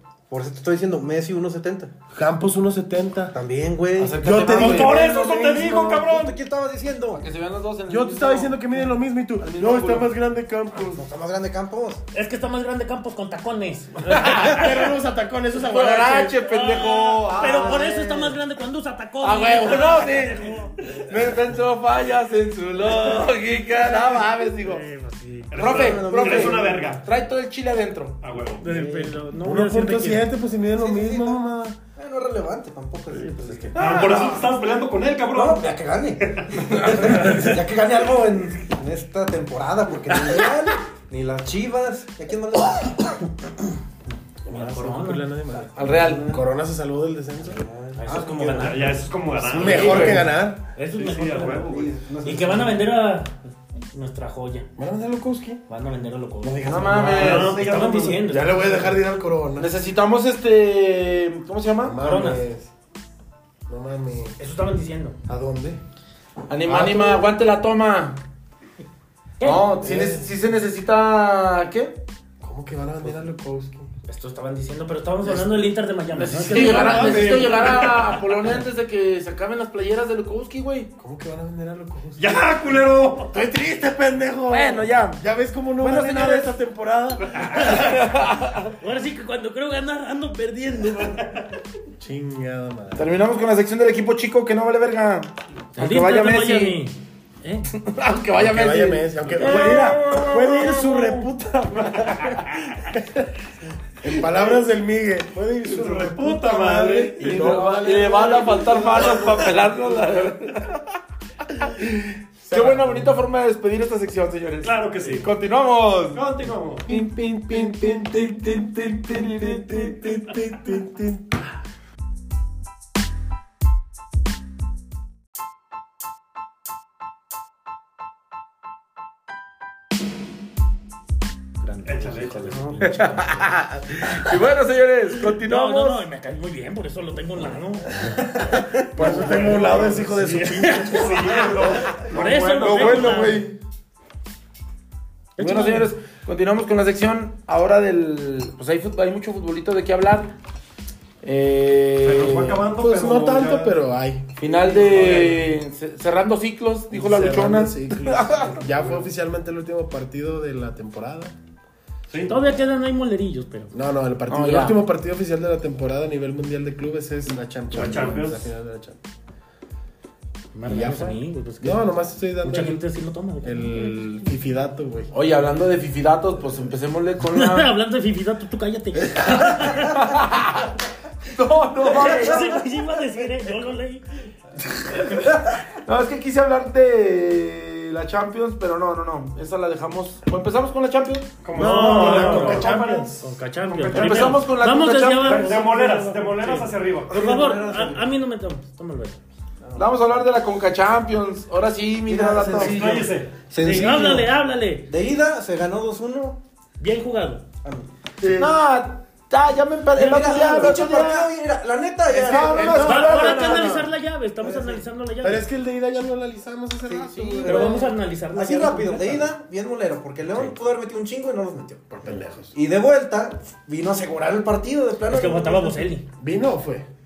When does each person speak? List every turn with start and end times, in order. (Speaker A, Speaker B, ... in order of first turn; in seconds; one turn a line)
Speaker A: 0.3-1.9
Speaker B: 2.1-3.3
Speaker A: 3.3-7.2
Speaker C: 4.0-5.0
Speaker B: 4.2-5.0
Speaker D: 4.5-6.3
Speaker C: 7.1-8.6
Speaker B: 7.9-11.1
Speaker C: 9.4-10.1
Speaker A: 10.8-12.0
Speaker E: 12.1-14.6
Speaker C: 14.1-14.6
Speaker B: 14.2-16.4
Speaker C: 15.6-18.0
Speaker E: 16.4-20.7
Speaker A: 17.4-18.3
Speaker C: 19.2-24.8
Speaker E: 24.6-25.6
Speaker D: 25.5-27.0
Speaker C: 25.5-28.2
Speaker A: 25.6-26.8
Speaker D: 28.2-28.7
Speaker E: 28.6-30.3
Speaker A: 28.6-29.1
Speaker B: 29.4-31.8
Speaker A: 30.7-31.4
Speaker A: 31.9-34.0
Speaker E: 33.1-33.8
Speaker C: 33.8-34.5
Speaker D: 33.8-35.8
Speaker A: 35.3-43.1
Speaker D: 36.3-37.1
Speaker B: 44.4-47.6
Speaker E: 44.5-45.2
Speaker A: 45.5-46.5
Speaker C: 45.7-46.3
Speaker A: 47.4-49.0
Speaker E: 48.0-53.3
Speaker D: 48.6-50.2
Speaker B: 49.5-50.7
Speaker C: 49.7-50.2
Speaker D: 50.9-51.9
Speaker A: 51.6-52.8
Speaker E: 53.9-54.7
Speaker B: 54.8-55.6
Speaker E: 55.7-58.6
Speaker B: 56.4-57.5
Speaker A: 56.6-57.5
Speaker C: 56.6-57.7
Speaker D: 57.1-58.2
Speaker B: 58.2-59.7
Speaker C: 59.6-62.0
Speaker B: 61.8-62.7
Speaker E: 62.0-62.5
Speaker B: 63.7-64.4
Speaker E: 64.4-65.2
Speaker B: 65.3-65.8
Speaker C: 66.5-68.2
Speaker B: 66.6-67.2
Speaker E: 69.4-69.7
Speaker C: 69.4-72.0
Speaker B: 69.8-70.3
Speaker B: 72.4-73.9
Speaker E: 74.0-77.4
Speaker B: 75.2-75.5
Speaker B: 76.2-77.9
Speaker C: 76.3-80.9
Speaker D: 76.5-78.2
Speaker B: 81.0-82.5
Speaker D: 82.2-83.4
Speaker B: 83.3-87.8
Speaker C: 84.5-85.2
Speaker C: 85.8-86.5
Speaker D: 87.3-87.8
Speaker C: 87.8-88.7
Speaker E: 88.8-91.4
Speaker B: 92.0-93.1
Speaker C: 93.0-96.8
Speaker E: 95.8-97.7
Speaker C: 97.7-101.1
Speaker B: 98.4-103.3
Speaker E: 99.4-100.3
Speaker D: 99.4-99.8
Speaker D: 101.8-102.4
Speaker B: 104.0-109.5
Speaker D: 105.6-108.2
Speaker C: 107.2-110.8
Speaker B: 112.5-113.1
Speaker C: 112.5-116.2
Speaker D: 114.6-115.3
Speaker D: 116.1-116.9
Speaker C: 116.9-120.0
Speaker B: 116.9-121.4
Speaker E: 131.6-133.5
Speaker D: 131.8-132.6
Speaker A: 132.5-132.8
Speaker C: 132.8-136.0
Speaker E: 135.2-138.1
Speaker B: 138.7-141.5
Speaker D: 139.0-143.4
Speaker E: 139.0-139.4
Speaker E: 140.2-141.3
Speaker E: 141.9-143.4
Speaker C: 142.5-143.6
Speaker E: 145.4-145.9
Speaker C: 145.4-150.3
Speaker C: 151.2-152.7
Speaker D: 152.0-153.8
Speaker B: 152.8-154.2
Speaker C: 154.3-158.6
Speaker D: 154.4-155.5
Speaker B: 156.9-161.3
Speaker D: 158.4-159.0
Speaker B: 162.1-162.5
Speaker E: 162.3-163.8
Speaker B: 163.7-169.0
Speaker C: 164.3-164.8
Speaker D: 167.7-168.5
Speaker E: 170.5-171.9
Speaker B: 170.6-172.8
Speaker E: 172.4-174.1
Speaker B: 173.4-175.1
Speaker C: 175.1-177.7
Speaker E: 177.3-180.1
Speaker C: 179.7-180.7
Speaker C: 181.2-182.6
Speaker E: 181.8-184.1
Speaker A: 182.0-182.6
Speaker B: 184.7-185.2
Speaker C: 185.8-191.3
Speaker D: 191.4-194.5
Speaker B: 191.5-193.2
Speaker E: 191.6-199.2
Speaker C: 193.9-195.6
Speaker D: 195.2-197.2
Speaker A: 197.1-198.1
Speaker A: 199.6-200.1
Speaker C: 199.8-203.1
Speaker A: 202.1-204.3
Speaker D: 202.5-203.3
Speaker E: 203.6-204.9
Speaker A: 204.9-206.4
Speaker E: 206.8-207.4
Speaker A: 207.6-207.9
Speaker B: 208.2-208.6
Speaker C: 208.3-211.3
Speaker E: 209.9-210.8
Speaker A: 210.0-213.8
Speaker C: 212.1-213.9
Speaker B: 212.3-213.8
Speaker E: 212.8-215.4
Speaker A: 214.4-214.8
Speaker B: 215.2-217.8
Speaker A: 216.8-225.9
Speaker E: 217.4-219.3
Speaker B: 221.9-222.5
Speaker E: 225.1-226.1
Speaker B: 226.2-226.8